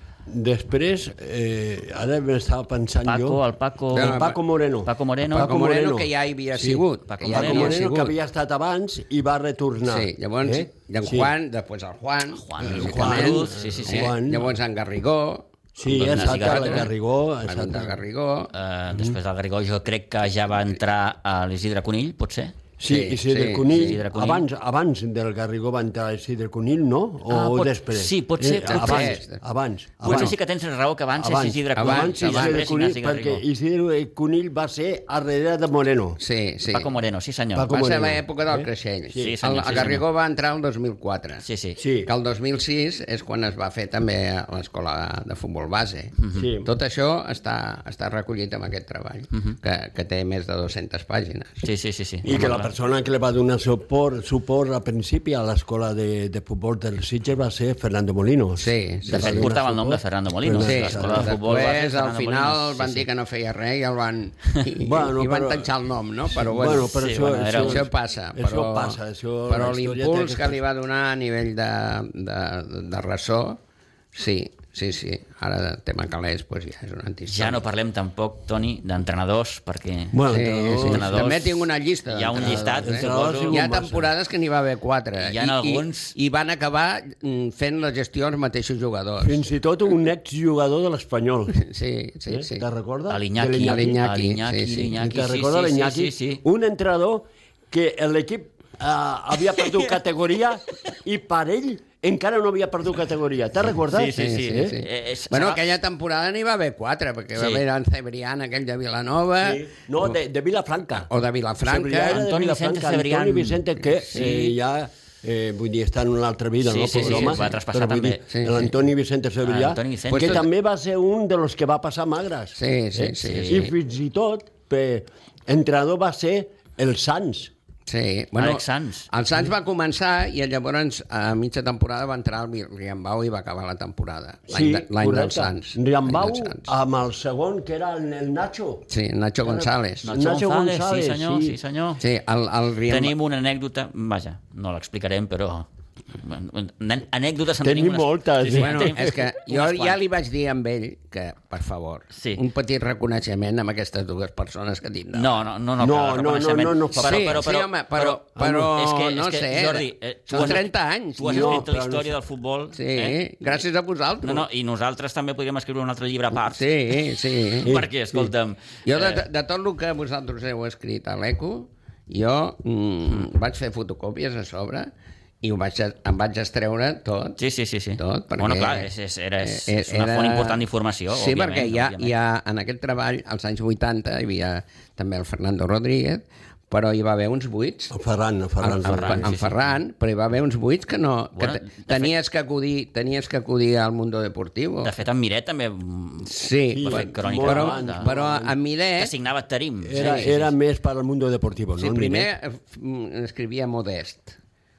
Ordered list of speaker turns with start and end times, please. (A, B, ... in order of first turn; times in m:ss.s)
0:00.3-0:11.3 A
0:03.0-0:05.5 B
0:03.9-0:04.3 C
0:05.3-0:08.2 C
0:07.1-0:07.8 B
0:09.8-0:15.5 C
0:12.3-0:14.1 B
0:12.6-0:14.5 A
0:15.8-0:18.0 A
0:15.9-0:16.9 B
0:16.1-0:18.5 C
0:18.5-0:22.6 B
0:22.8-0:30.4 A
0:22.8-0:24.0 C
0:23.6-0:24.5 B
0:27.3-0:29.2 B
0:28.6-0:29.4 C
0:30.0-0:33.4 B
0:31.2-0:36.2 A
0:31.8-0:32.7 C
0:36.2-0:36.9 C
0:36.7-0:37.7 B
0:37.6-0:39.9 A
0:37.7-0:41.4 C
0:39.2-0:40.0 B
0:41.4-0:41.8 B
0:41.8-0:42.1 A
0:42.0-0:51.7 C
0:46.4-0:46.7 A
0:51.6-0:52.7 B
0:52.2-1:01.3 A
0:58.6-0:59.5 C
0:59.1-1:03.1 B
1:00.6-1:13.6 C
1:04.8-1:05.7 A
1:06.3-1:10.6 A
1:06.9-1:07.8 B
1:14.1-1:17.7 C
1:17.3-1:23.7 B
1:20.1-1:21.1 A
1:20.3-1:29.5 C
1:22.4-1:24.1 A
1:25.2-1:26.2 B
1:29.2-1:31.5 A
1:31.5-1:32.6 C
1:32.3-1:34.0 A
1:33.1-1:36.4 B
1:33.6-1:35.0 C
1:35.0-1:44.8 A
1:43.9-1:45.7 B
1:44.1-1:49.6 C
1:47.4-1:47.6 B
1:49.4-1:51.1 A
1:51.0-1:52.2 C
1:51.6-2:07.5 A
1:52.1-1:54.6 B
1:54.1-1:54.4 C
1:56.6-1:58.4 B
1:58.3-1:58.7 C
1:59.4-2:00.5 B
2:00.1-2:00.4 C
2:02.6-2:03.7 C
2:03.2-2:03.7 B
2:07.9-2:16.7 C
2:08.4-2:09.1 B
2:14.5-2:18.9 A
2:18.9-2:20.1 C
2:19.4-2:21.6 A
2:20.0-2:22.0 B
2:22.0-2:23.2 C
2:22.9-2:25.7 B
2:26.2-2:30.0 B
2:27.6-2:29.0 A
2:28.6-2:35.3 C
2:32.1-2:32.4 B
2:35.1-2:43.2 B
2:35.8-2:37.4 A
2:37.0-2:41.7 C
2:38.4-2:38.7 A
2:41.2-2:42.2 A
2:42.8-2:44.4 C
2:44.2-2:46.9 B
2:46.4-2:47.7 C
2:47.6-2:49.2 B
2:47.6-2:48.3 A
2:48.9-2:54.9 C
2:55.4-2:57.4 C
2:57.4-3:02.1 B
2:58.0-2:58.9 C
2:59.4-3:07.9 C
3:07.9-3:09.3 A
3:08.6-3:14.9 C
3:08.8-3:09.8 B
3:11.4-3:12.1 B
3:14.8-3:18.1 B
3:16.2-3:19.1 C
3:16.7-3:18.6 A
3:19.0-3:20.5 B
3:19.8-3:22.3 A
3:20.0-3:20.3 C
3:21.8-3:24.4 C